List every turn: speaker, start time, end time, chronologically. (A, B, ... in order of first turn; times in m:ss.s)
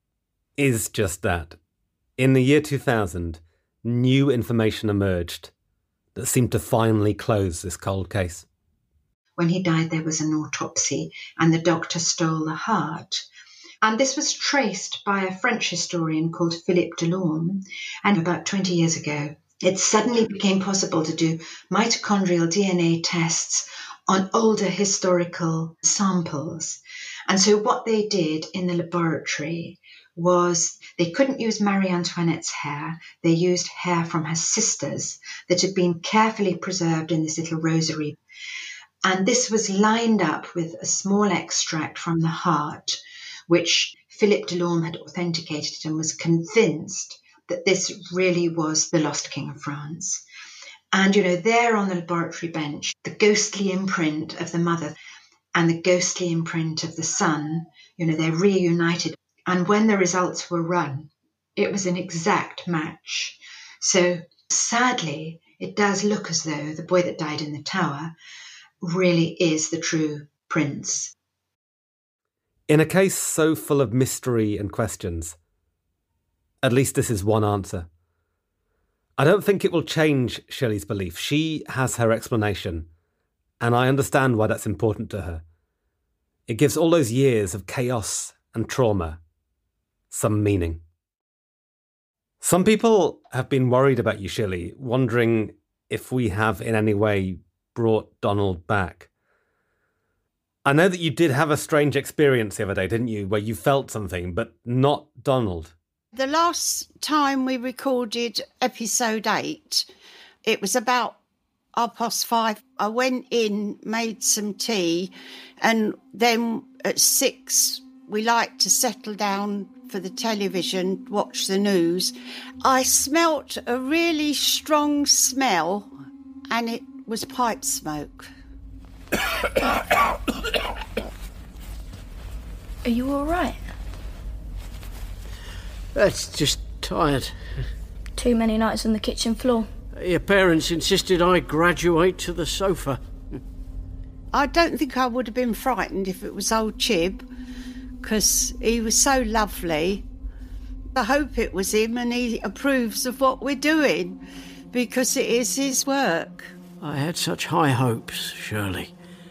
0:00.6-0:01.6 A
0:02.2-0:05.5 A
0:06.1-0:08.4 A
0:09.4-0:13.2 B
0:13.8-0:38.2 B
0:39.0-0:50.2 B
0:50.9-0:54.9 B
0:55.5-1:08.1 B
1:08.8-1:11.1 B
1:12.7-1:15.4 A
1:16.6-1:17.9 A
1:19.2-1:22.9 A
1:23.6-1:25.4 A
1:26.5-1:29.2 A
1:30.1-1:30.8 A
1:32.4-1:39.1 A
1:40.6-1:45.7 A
1:46.1-1:49.8 C
1:50.4-1:51.2 C
1:51.8-2:05.9 C
2:06.5-2:08.3 C
2:12.8-2:13.6 D
2:15.9-2:17.3 E
2:18.2-2:19.7 D
2:19.9-2:23.4 E
2:24.3-2:27.2 C
2:28.0-2:30.0 C
2:30.9-2:34.2 C
2:34.7-2:36.5 C
2:36.8-2:38.9 E